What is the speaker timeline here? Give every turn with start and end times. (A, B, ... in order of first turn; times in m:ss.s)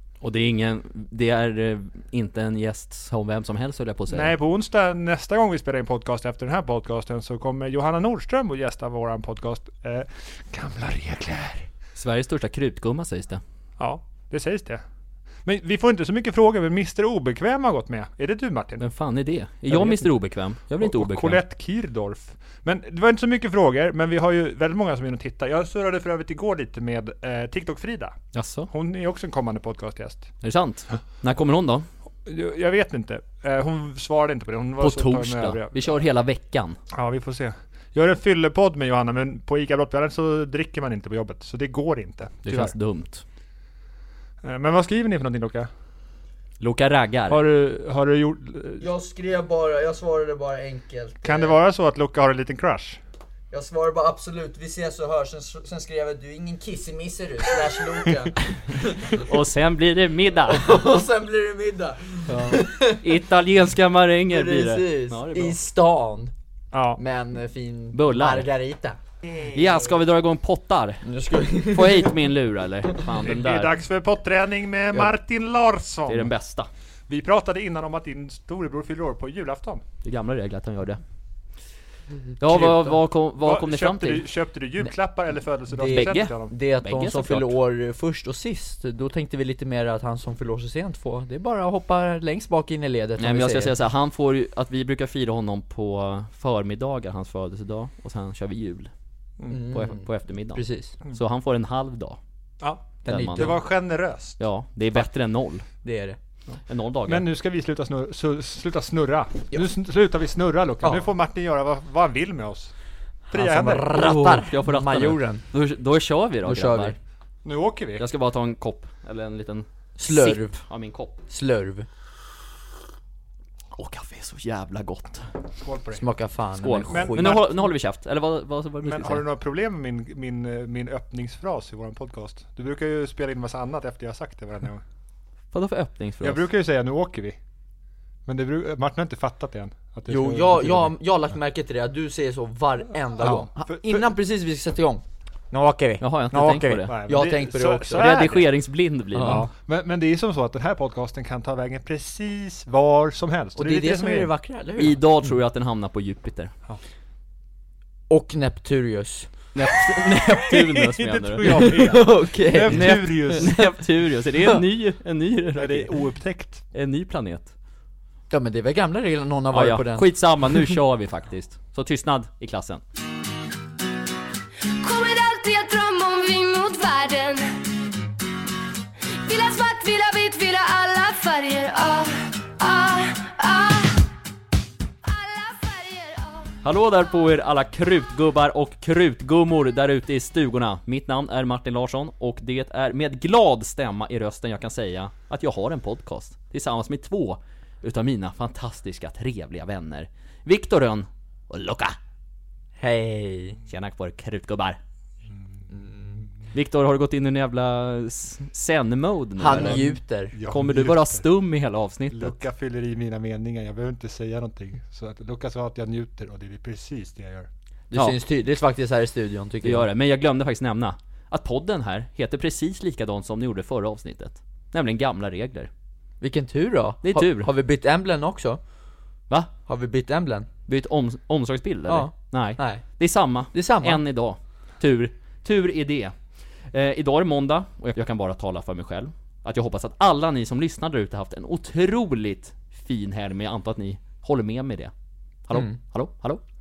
0:00.2-0:04.3 A
0:04.1-0:11.7 B
0:12.0-0:13.4 A
0:13.8-0:14.8 B
0:15.4-0:18.8 B
0:18.8-0:21.4 A
0:19.7-0:20.1 B
0:20.7-0:28.2 B
0:28.3-0:28.7 A
0:28.7-0:30.3 B
0:30.4-0:31.9 A
0:32.2-0:35.9 B
0:34.8-0:36.8 A
0:36.9-0:42.7 B
0:42.4-0:43.2 A
0:44.4-0:45.7 B
0:46.6-0:47.4 A
0:47.3-0:48.8 B
0:48.8-0:51.6 C
0:51.2-0:53.0 B
0:53.5-0:59.3 C
0:59.1-1:00.8 A
1:00.5-1:03.1 C
1:02.3-1:05.6 A
1:04.3-1:06.3 C
1:06.7-1:07.0 B
1:07.0-1:09.0 C
1:07.9-1:08.5 A
1:09.4-1:11.1 A
1:11.0-1:12.2 C
1:11.7-1:13.7 A
1:13.2-1:16.3 B
1:16.1-1:16.7 A
1:17.1-1:19.8 B
1:20.0-1:21.0 A
1:22.4-1:24.2 A
1:22.5-1:26.5 B
1:25.7-1:33.8 C
1:25.9-1:27.5 A
1:33.2-1:38.9 A
1:39.5-1:41.0 C
1:39.6-1:42.2 A
1:42.6-1:44.4 B
1:43.0-1:43.6 A
1:43.0-1:43.6 C
1:44.4-1:45.6 A
1:45.8-1:46.2 C
1:46.7-1:47.2 A
1:47.0-1:52.7 B
1:50.8-1:51.1 C
1:53.3-1:53.9 B
1:53.3-1:55.4 C
1:53.9-1:57.0 A
1:56.4-1:57.0 C
1:57.4-1:58.0 B
1:58.0-2:01.1 A
2:00.0-2:00.6 C
2:01.3-2:01.9 C
2:03.7-2:05.3 A
2:05.6-2:06.0 B
2:06.0-2:07.4 C
2:06.6-2:09.2 A
2:06.9-2:07.6 B
2:08.8-2:14.8 B
2:15.5-2:16.4 A
2:16.2-2:17.4 B
2:18.3-2:20.9 B
2:20.1-2:28.4 C
2:23.2-2:24.1 B
2:26.0-2:26.9 A
2:26.8-2:28.5 B
2:27.9-2:29.4 A
2:29.1-2:29.5 C
2:29.2-2:34.3 B
2:33.6-2:35.0 C
2:34.8-2:36.5 A
2:38.1-2:39.5 C
2:39.5-2:42.0 A
2:40.4-2:43.5 B
2:41.4-2:43.7 C
2:42.7-2:46.0 A
2:45.6-2:46.6 B
2:46.7-2:47.5 A
2:48.3-2:50.1 C
2:49.5-2:52.8 A
2:54.8-2:57.6 D
2:59.1-3:04.1 D
3:05.0-3:06.6 D
3:06.6-3:22.0 A
3:22.8-3:23.6 C
3:23.7-3:24.8 A
3:25.7-3:26.3 C
3:26.5-3:29.8 A
3:29.4-3:30.4 C
3:29.5-3:31.3 B
3:30.4-3:32.3 A
3:32.1-3:37.5 B
3:37.9-3:39.9 C
3:37.9-3:38.2 A
3:39.6-3:45.7 A
3:46.2-3:48.6 C
3:47.0-3:47.5 A
3:49.7-3:50.5 C
3:50.7-3:56.2 A
3:51.9-3:52.8 C
3:53.5-3:54.0 C
3:56.7-4:04.9 A
4:05.5-4:06.4 A
4:05.5-4:05.8 C